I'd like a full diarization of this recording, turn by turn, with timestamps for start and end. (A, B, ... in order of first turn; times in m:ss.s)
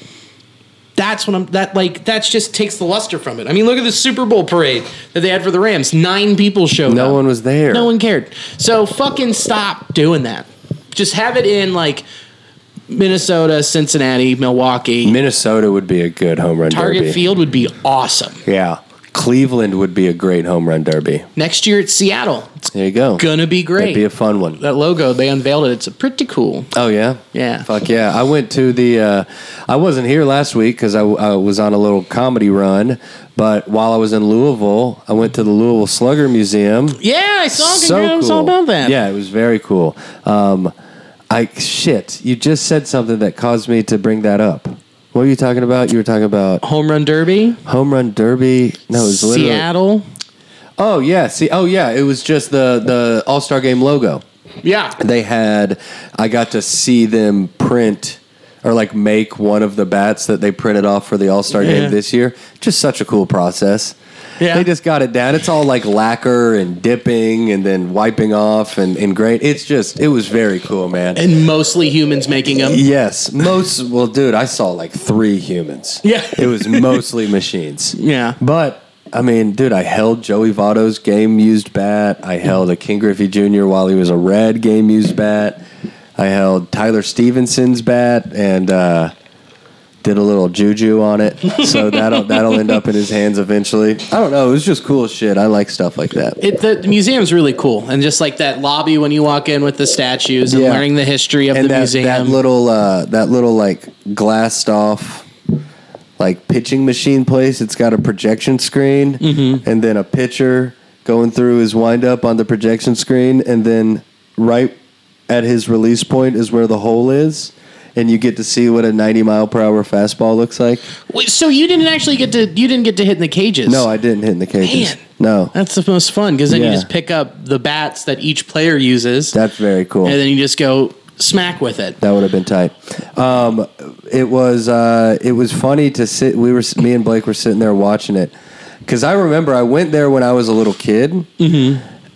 0:01.0-0:07.2 A
0:06.9-0:07.9 B
0:07.7-0:12.0 A
0:12.9-0:15.2 A
0:15.0-0:17.2 B
0:16.7-0:18.4 A
0:18.4-0:21.3 B
0:21.4-0:24.0 A
0:22.7-0:24.6 B
0:24.6-0:26.7 A
0:26.7-0:37.0 B
0:27.3-0:27.7 A
0:37.0-0:39.0 A
0:37.6-0:40.7 B
0:41.3-0:46.6 B
0:46.6-0:47.6 A
0:47.7-0:49.7 B
0:49.0-0:50.1 A
0:50.8-0:54.2 B
0:54.6-0:55.0 A
0:55.0-1:04.0 B
1:01.5-1:02.0 A
1:04.4-1:04.7 A
1:04.5-1:11.2 B
1:11.2-1:12.8 A
1:12.6-1:25.6 B
1:16.0-1:17.0 A
1:18.0-1:18.4 A
1:26.2-1:29.1 B
1:30.0-1:36.4 B
1:31.5-1:32.8 A
1:36.4-1:42.4 A
1:40.5-1:40.9 B
1:41.5-1:45.3 B
1:46.2-1:54.8 B
1:49.2-1:49.6 A
1:55.3-2:00.8 B
2:01.1-2:03.9 A
2:03.7-2:05.5 B
2:04.6-2:05.0 A
2:05.5-2:09.4 A
2:06.5-2:06.9 B
2:09.3-2:10.2 B
2:10.0-2:12.0 A
2:12.0-2:18.3 B
2:18.9-2:21.3 B
2:21.4-2:21.8 A